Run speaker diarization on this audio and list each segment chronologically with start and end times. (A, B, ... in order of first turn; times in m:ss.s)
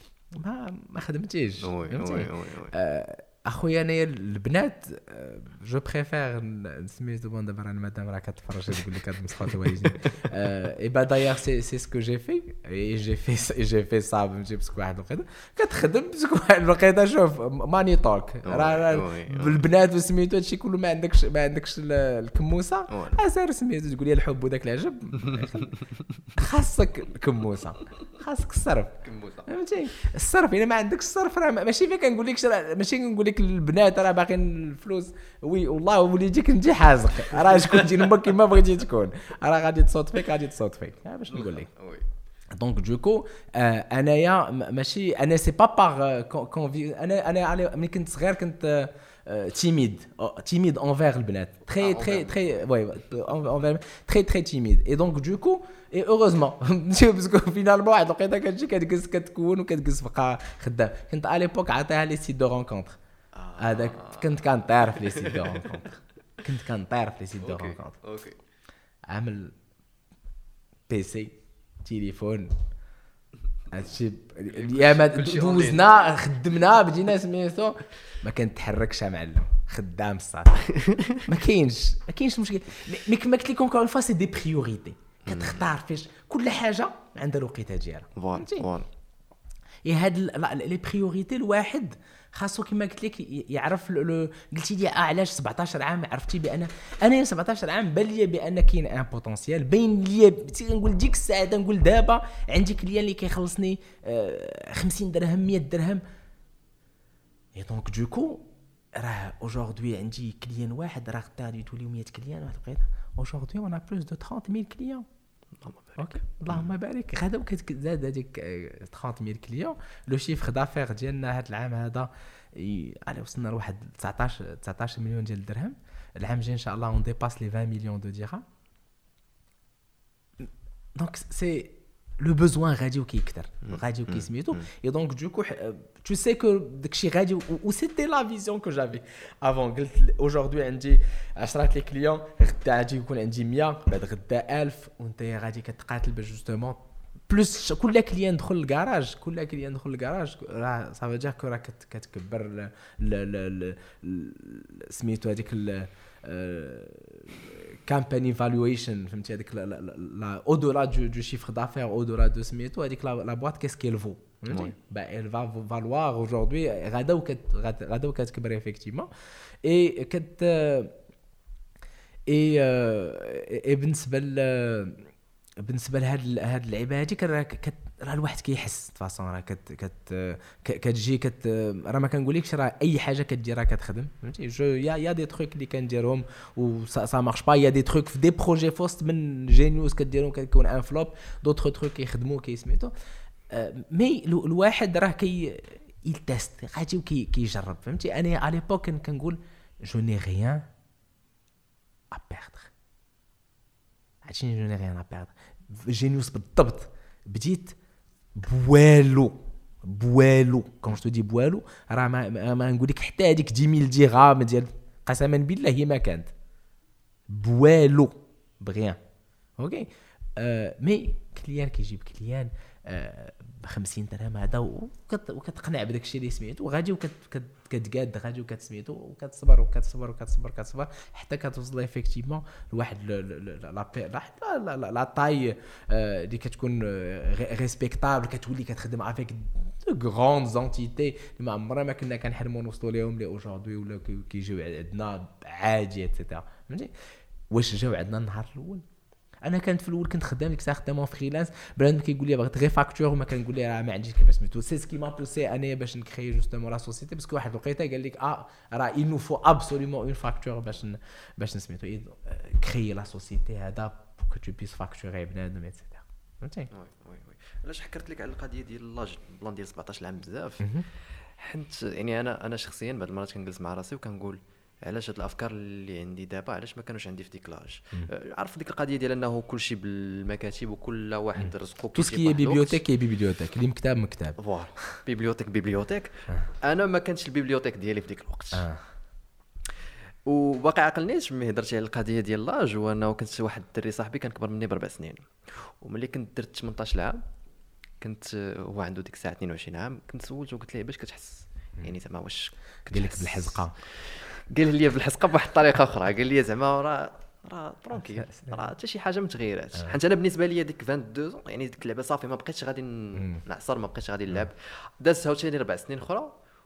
0:00.3-0:25.8 A
0:01.6-0:02.7 B
0:18.4-0:19.6 B
0:22.9-0:23.2 B
0:25.3-0:25.8 B
0:26.3-0:41.7 A
0:29.0-0:29.5 B
0:41.3-0:42.0 B
0:42.5-1:03.0 A
0:51.8-0:52.6 B
1:03.3-1:05.7 B
1:03.6-1:07.9 A
1:07.4-1:08.4 B
1:09.1-1:09.5 A
1:10.9-1:12.5 A
1:13.7-1:20.6 A
1:14.5-1:15.9 B
1:20.6-1:21.2 B
1:21.2-1:28.7 A
1:25.2-1:25.6 B
1:28.2-1:28.9 B
1:29.8-1:46.0 A
1:47.5-1:55.0 A
1:55.6-1:56.7 B
1:56.0-2:08.4 A
2:10.4-2:49.1 A
2:13.6-2:14.7 B
2:44.5-2:44.7 B
2:49.6-2:50.9 A
2:52.3-2:55.1 A
2:55.6-3:12.9 A
3:13.5-3:20.7 A
3:22.1-3:22.7 A
3:24.2-3:27.8 A
3:28.3-3:36.3 A
3:37.3-3:39.0 A
3:39.6-4:06.9 A
4:07.5-4:08.8 A
4:09.4-4:26.7 A
4:26.7-4:30.7 B
4:30.6-4:30.9 A
4:31.4-4:42.8 B
4:41.4-4:44.4 A
4:44.4-4:48.7 B
4:48.5-4:48.8 A
4:50.2-4:57.2 B
4:58.0-5:16.3 B
5:02.9-5:03.8 A
5:07.9-5:08.7 A
5:13.2-5:13.4 A